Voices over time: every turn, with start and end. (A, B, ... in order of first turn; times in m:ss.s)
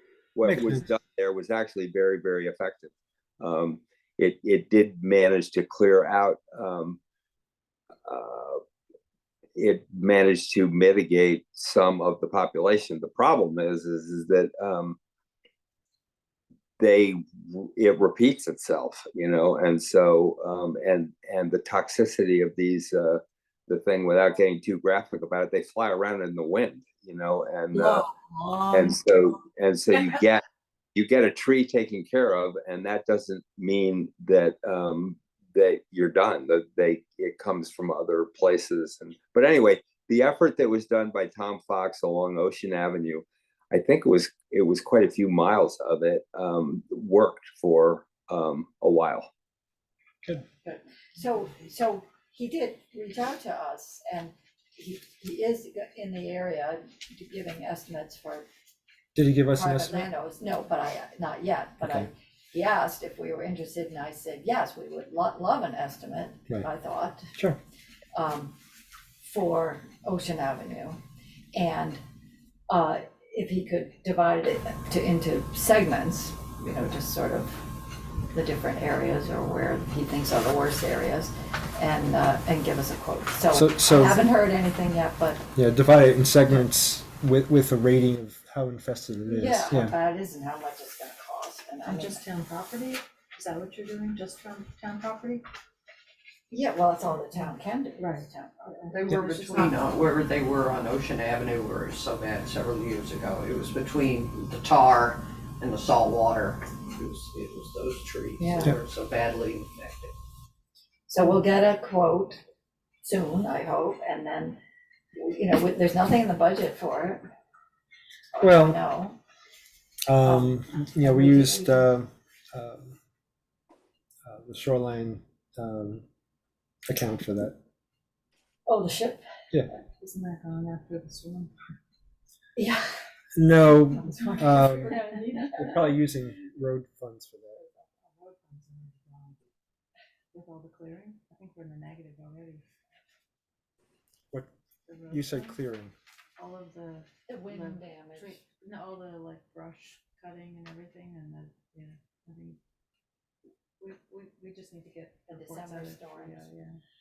0:00.3-0:07.0 A
0:00.4-0:00.8 B
0:08.0-0:08.6 A
0:09.5-0:15.0 A
0:16.8-0:28.0 A
0:27.7-0:28.9 C
0:28.7-0:30.4 A
0:30.9-0:49.3 A
0:50.6-0:58.4 D
0:59.1-1:00.1 B
0:59.5-1:07.3 D
1:01.8-1:02.1 B
1:08.1-1:08.5 D
1:09.2-1:11.0 D
1:11.5-1:12.0 D
1:12.7-1:17.6 D
1:18.3-1:25.4 D
1:23.5-1:24.3 B
1:25.5-1:29.9 B
1:29.3-1:32.2 D
1:31.8-1:35.4 E
1:36.5-1:38.9 D
1:37.3-1:39.8 E
1:38.9-1:50.1 C
1:48.4-1:48.7 D
1:51.1-1:52.4 D
1:53.0-1:54.6 D
1:55.1-1:57.2 D
1:58.3-1:59.2 D
1:58.4-1:58.8 B
2:00.1-2:03.0 B
2:00.2-2:01.9 D
2:04.2-2:06.0 B
2:06.9-2:07.6 B
2:08.6-2:09.2 D
2:09.8-2:11.5 E
2:12.6-2:12.8 D
2:13.4-2:15.0 B
2:14.0-2:15.5 D
2:14.2-2:15.9 E
2:15.5-2:17.6 B
2:18.0-2:19.4 E
2:20.3-2:22.7 E
2:24.9-2:25.6 E
2:25.1-2:25.9 B
2:26.4-2:32.6 E
2:27.3-2:28.4 D
2:33.8-2:36.8 E
2:35.3-2:36.5 D